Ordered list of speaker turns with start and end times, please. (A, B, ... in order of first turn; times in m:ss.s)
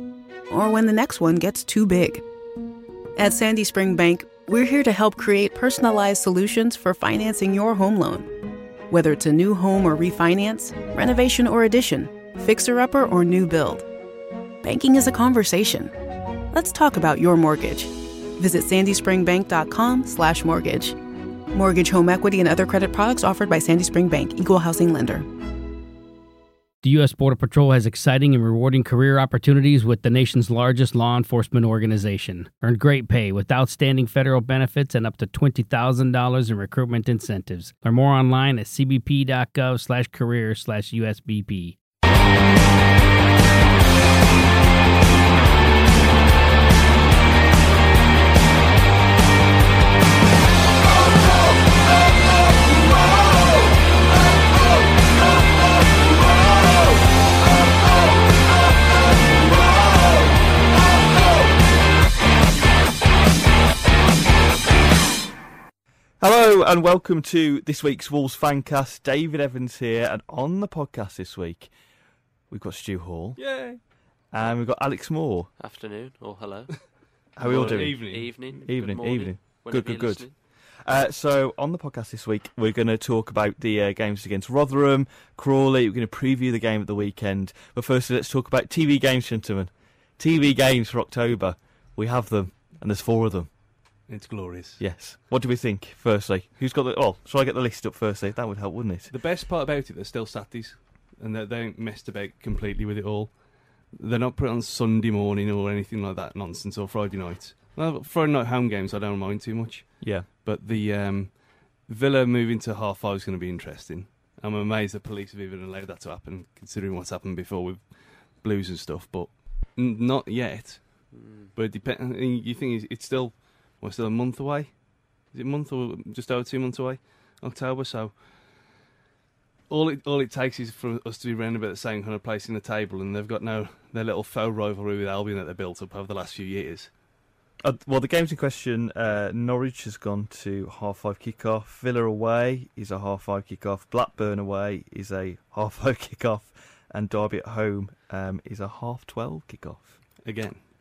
0:00.5-0:02.2 A
0:03.2-0:08.3 A
0:08.9-0:13.9 A
0:14.6-0:15.9 A
0:16.5-0:21.0 A
0:21.5-0:25.3 A
0:26.8-0:41.8 B
1:06.2-1:11.7 C
1:12.5-1:13.4 C
1:13.4-1:13.8 D
1:14.3-1:15.5 C
1:15.6-1:16.8 E
1:17.4-1:33.5 C
1:17.4-1:20.3 E
1:17.4-1:18.3 D
1:34.1-1:34.8 D
1:34.8-1:39.1 C
1:39.1-1:43.3 D
1:43.9-1:57.8 D
1:50.0-1:50.3 C
1:58.4-2:04.7 D
2:01.1-2:01.5 E
2:05.3-2:08.2 D
2:09.7-2:16.9 D
2:17.6-2:30.0 C
2:30.2-2:30.6 D